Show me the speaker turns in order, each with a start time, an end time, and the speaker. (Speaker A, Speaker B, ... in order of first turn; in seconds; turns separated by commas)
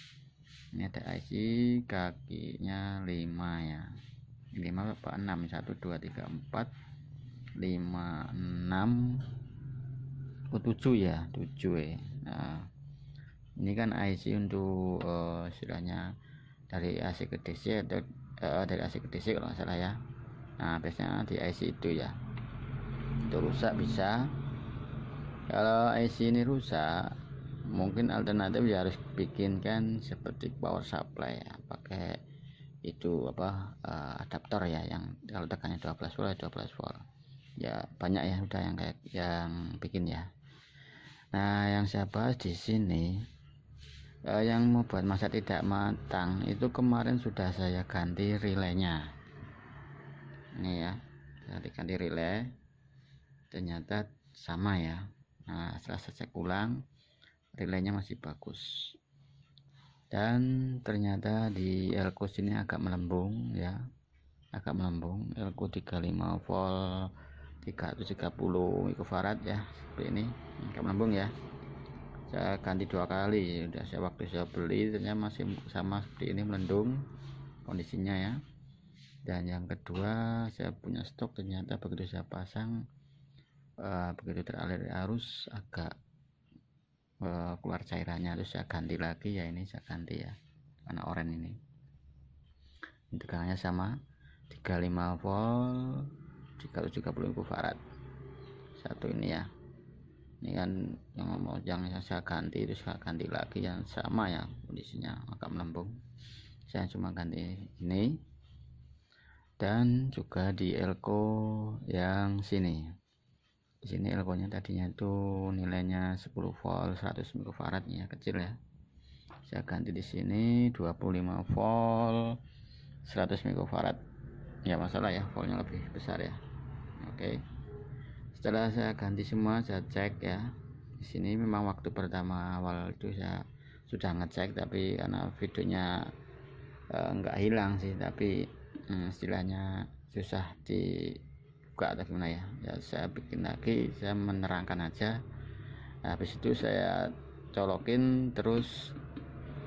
Speaker A: 0.7-4.0, Speaker A: 4.5-6.7, Speaker A: 7.6-9.3, Speaker A: 10.5-12.7, Speaker A: 13.6-16.1, Speaker A: 16.7-20.0, Speaker A: 20.6-22.2, Speaker A: 23.2-24.3, Speaker A: 25.5-27.1, Speaker A: 27.6-32.2, Speaker A: 32.9-37.0, Speaker A: 37.6-40.3, Speaker A: 41.3-43.2, Speaker A: 44.3-49.1, Speaker A: 50.6-52.5, Speaker A: 53.5-56.8, Speaker A: 57.6-59.0, Speaker A: 60.1-63.8, Speaker A: 64.5-71.3, Speaker A: 72.3-77.0, Speaker A: 77.7-78.4, Speaker A: 79.2-82.8, Speaker A: 83.8-86.0, Speaker A: 87.2-91.6, Speaker A: 93.1-94.0, Speaker A: 94.5-97.8, Speaker A: 98.8-99.5, Speaker A: 100.4-106.0, Speaker A: 106.7-108.2, Speaker A: 109.6-112.9, Speaker A: 113.8-118.6, Speaker A: 119.5-122.4, Speaker A: 123.0-124.0, Speaker A: 124.7-126.4, Speaker A: 127.0-127.4, Speaker A: 128.3-136.1, Speaker A: 136.9-141.2, Speaker A: 141.8-145.2, Speaker A: 146.0-149.0